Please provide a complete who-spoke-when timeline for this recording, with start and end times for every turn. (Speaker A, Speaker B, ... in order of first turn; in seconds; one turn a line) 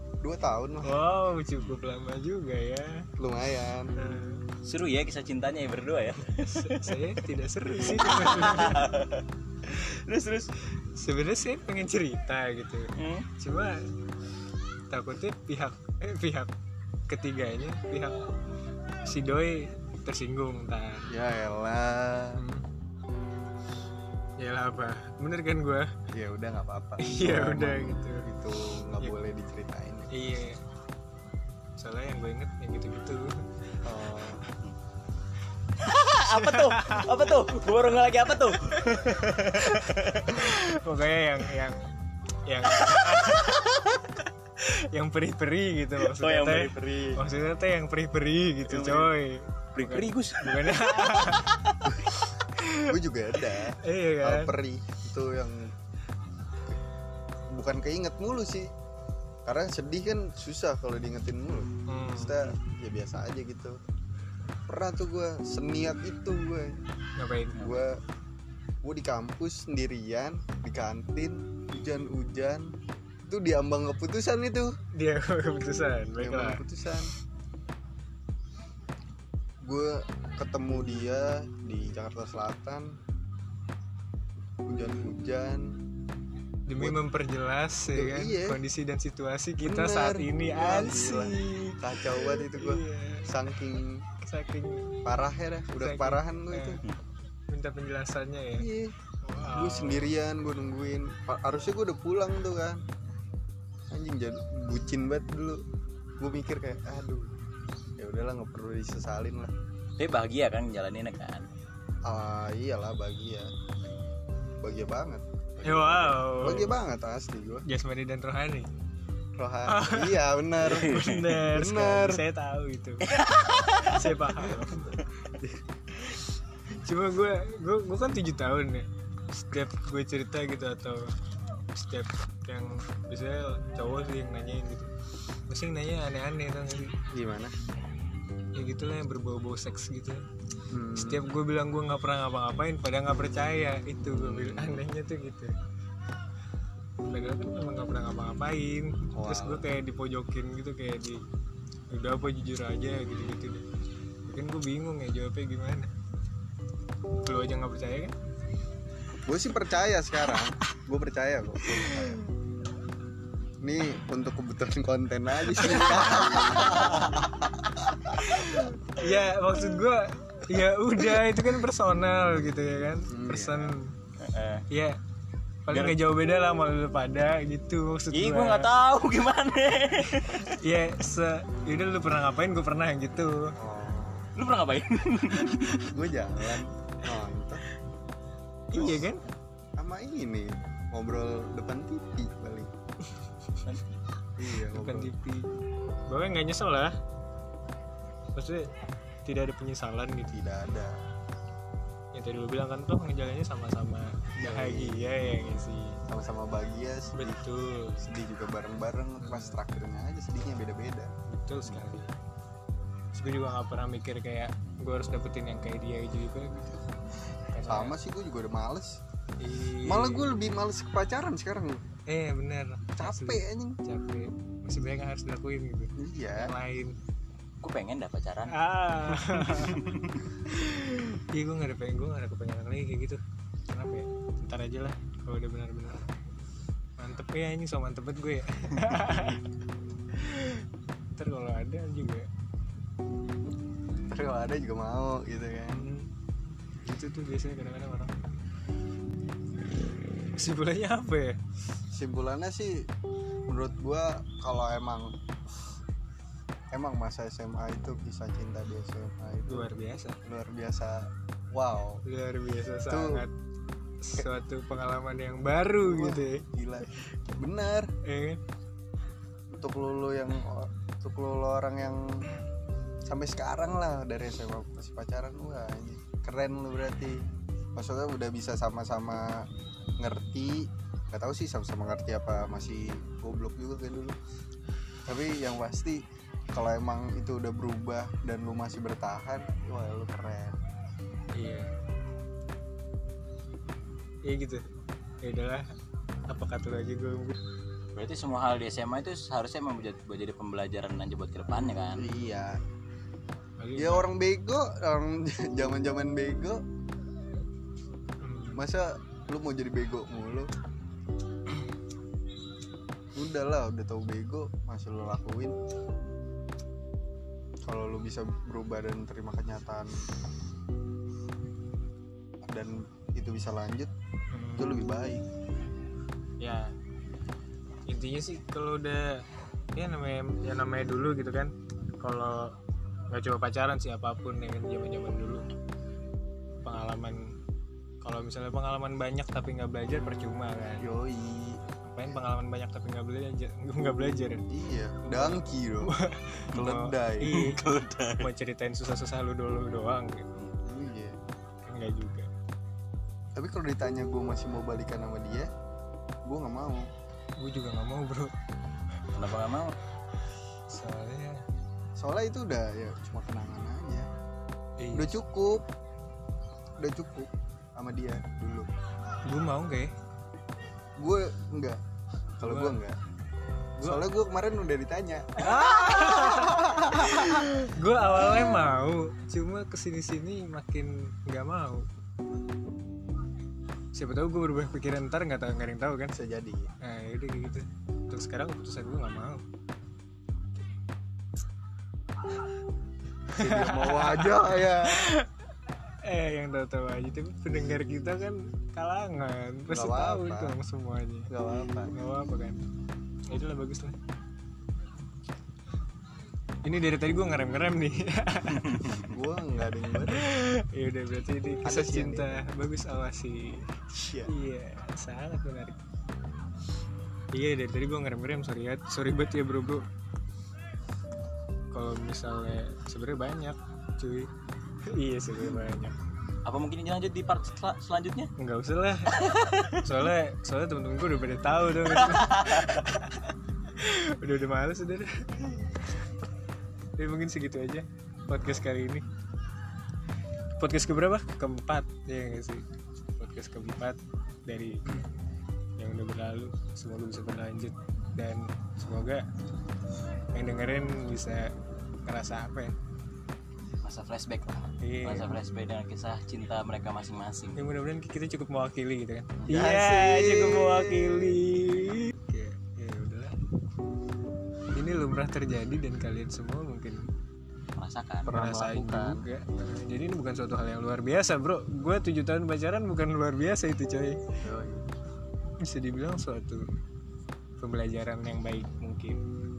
Speaker A: 0.2-0.9
Speaker B: 0.8-3.1
Speaker A: 3.2-3.9
Speaker B: 4.0-4.4
Speaker C: 4.6-7.1
Speaker B: 6.4-8.9
Speaker C: 7.7-10.5
Speaker B: 10.9-13.9
Speaker C: 12.9-13.3
Speaker B: 14.9-16.5
Speaker B: 17.1-18.2
Speaker B: 19.0-21.1
Speaker A: 21.1-22.4
Speaker B: 22.3-22.6
Speaker B: 24.4-25.9
Speaker A: 26.1-30.1
Speaker B: 27.0-28.3
Speaker B: 30.1-30.6
Speaker B: 31.8-33.4
Speaker A: 33.8-34.4
Speaker C: 35.8-40.5
Speaker B: 36.3-37.1
Speaker B: 38.6-41.8
Speaker B: 42.5-43.6
Speaker C: 42.8-44.1
Speaker B: 44.5-51.5
Speaker C: 46.0-47.2
Speaker C: 48.7-49.1
Speaker C: 49.7-51.9
Speaker B: 52.1-52.9
Speaker A: 52.8-55.7
Speaker B: 53.8-54.5
Speaker A: 57.5-58.7
Speaker A: 59.4-63.8
Speaker B: 61.9-62.5
Speaker A: 64.7-66.8
Speaker B: 67.2-67.8
Speaker A: 67.5-68.0
Speaker A: 68.8-72.7
Speaker A: 73.3-74.7
Speaker B: 74.9-76.6
Speaker A: 76.2-77.1
Speaker A: 79.6-83.0
Speaker A: 84.7-85.8
Speaker B: 86.7-93.6
Speaker A: 87.9-88.6
Speaker A: 89.6-94.0
Speaker B: 94.2-94.9
Speaker A: 95.0-96.8
Speaker B: 95.8-96.8
Speaker B: 97.5-98.7
Speaker A: 98.6-102.8
Speaker B: 99.2-100.1
Speaker A: 103.9-105.6
Speaker A: 106.2-107.3
Speaker A: 108.0-109.5
Speaker C: 110.0-111.5
Speaker A: 112.0-113.5
Speaker A: 114.6-117.6
Speaker B: 115.6-116.8
Speaker B: 117.7-118.7
Speaker A: 119.4-121.0
Speaker B: 119.7-124.9
Speaker C: 120.6-121.4
Speaker A: 121.5-122.2
Speaker C: 123.0-124.1
Speaker B: 126.0-131.1
Speaker B: 131.7-134.9
Speaker B: 135.5-136.9
Speaker A: 137.1-137.5
Speaker B: 138.6-140.2
Speaker A: 140.7-141.3
Speaker B: 141.0-145.5
Speaker A: 144.1-144.8
Speaker B: 147.1-151.2
Speaker A: 149.1-149.6
Speaker B: 151.9-153.6
Speaker B: 154.3-155.9
Speaker B: 157.1-158.1
Speaker A: 159.2-162.2
Speaker B: 161.6-162.3
Speaker A: 163.6-168.4
Speaker B: 165.4-166.9
Speaker C: 166.5-167.2
Speaker B: 168.1-173.9
Speaker A: 173.1-173.7
Speaker C: 174.2-174.7
Speaker B: 174.7-175.0
Speaker B: 175.7-178.7
Speaker C: 175.7-176.0
Speaker C: 178.1-180.5
Speaker B: 180.3-183.6
Speaker A: 183.6-184.3
Speaker C: 184.3-185.9
Speaker A: 185.9-187.6
Speaker B: 188.7-189.2
Speaker A: 188.8-189.0
Speaker A: 189.8-192.7
Speaker C: 193.6-194.0
Speaker A: 194.4-195.1
Speaker B: 194.7-195.5
Speaker B: 196.1-197.0
Speaker B: 198.3-198.7
Speaker B: 199.2-200.4
Speaker A: 200.3-201.0
Speaker B: 202.1-206.0
Speaker A: 204.4-205.1
Speaker A: 206.1-207.4
Speaker B: 207.1-208.0
Speaker A: 208.0-211.1
Speaker B: 209.2-209.6
Speaker B: 211.3-212.1
Speaker B: 213.1-216.8
Speaker B: 217.5-217.9
Speaker A: 217.6-219.0
Speaker B: 219.4-220.3
Speaker A: 219.8-221.8
Speaker B: 222.1-226.9
Speaker A: 223.0-223.8
Speaker A: 225.9-226.5
Speaker C: 227.6-228.6
Speaker B: 228.5-229.9
Speaker C: 229.1-230.2
Speaker B: 230.5-236.0
Speaker B: 237.0-239.4
Speaker B: 240.1-242.3
Speaker A: 244.1-245.9
Speaker B: 245.7-246.1
Speaker B: 246.8-248.1
Speaker B: 250.3-251.4
Speaker A: 251.9-252.9
Speaker A: 253.5-255.2
Speaker A: 256.7-259.7
Speaker B: 259.5-260.2
Speaker A: 260.2-262.0
Speaker B: 262.0-263.3
Speaker A: 262.9-263.2
Speaker B: 264.0-266.4
Speaker A: 265.8-267.9
Speaker B: 268.0-268.4
Speaker A: 269.5-272.3
Speaker A: 273.1-279.5
Speaker A: 280.0-284.2
Speaker A: 285.1-290.6
Speaker B: 291.3-291.7
Speaker B: 294.2-294.7
Speaker B: 295.2-295.7
Speaker B: 296.3-297.4
Speaker C: 297.9-302.2
Speaker A: 301.9-302.6
Speaker B: 303.6-304.1
Speaker A: 303.8-306.6
Speaker B: 308.2-308.6
Speaker A: 308.5-310.5
Speaker A: 313.1-315.6
Speaker A: 317.6-320.1
Speaker A: 322.4-323.9
Speaker B: 324.3-324.9
Speaker A: 324.6-325.2
Speaker B: 326.4-326.7
Speaker B: 327.9-329.2
Speaker B: 329.7-332.5
Speaker B: 333.1-335.4
Speaker B: 336.6-337.3
Speaker B: 338.0-340.9
Speaker A: 340.8-341.6
Speaker B: 341.8-344.4
Speaker A: 344.5-345.9
Speaker B: 345.0-347.6
Speaker A: 346.5-347.3
Speaker C: 347.2-348.3
Speaker B: 348.2-350.3
Speaker A: 350.6-351.1
Speaker B: 351.6-352.3
Speaker A: 353.4-355.5
Speaker A: 356.2-356.9
Speaker B: 357.4-358.3
Speaker C: 359.1-359.7
Speaker B: 360.7-361.4
Speaker A: 362.0-364.1
Speaker B: 364.8-365.2
Speaker A: 364.9-365.6
Speaker A: 366.8-368.7
Speaker B: 369.2-369.9
Speaker A: 371.0-371.8
Speaker A: 372.4-373.0
Speaker B: 372.4-372.8
Speaker A: 373.8-377.5
Speaker B: 375.4-381.9
Speaker B: 383.9-386.1
Speaker A: 386.1-386.7
Speaker B: 386.8-389.4
Speaker B: 393.3-395.3
Speaker A: 393.4-395.1
Speaker B: 396.0-401.3
Speaker A: 399.7-400.6
Speaker A: 401.3-401.9
Speaker B: 401.9-402.6
Speaker B: 403.3-404.0
Speaker B: 406.6-408.8
Speaker C: 408.6-409.0
Speaker A: 409.0-410.3
Speaker B: 409.9-413.7
Speaker A: 411.6-412.4
Speaker A: 414.0-414.3
Speaker B: 414.2-415.8
Speaker B: 417.3-419.8
Speaker B: 421.7-424.3
Speaker B: 424.9-425.9
Speaker C: 426.4-428.3
Speaker B: 428.4-433.2
Speaker C: 429.1-429.9
Speaker C: 431.9-432.9
Speaker B: 433.7-435.9
Speaker B: 437.0-439.0
Speaker B: 440.6-442.6
Speaker B: 443.2-445.0
Speaker B: 445.8-449.2
Speaker B: 450.3-451.5
Speaker B: 452.1-452.7
Speaker C: 453.8-457.7
Speaker B: 454.8-455.3
Speaker B: 457.6-463.4
Speaker A: 459.5-461.4
Speaker B: 464.7-467.1
Speaker C: 467.8-468.3
Speaker A: 468.2-469.2
Speaker B: 468.3-474.2
Speaker A: 474.4-474.9
Speaker B: 475.6-476.6
Speaker B: 477.6-479.2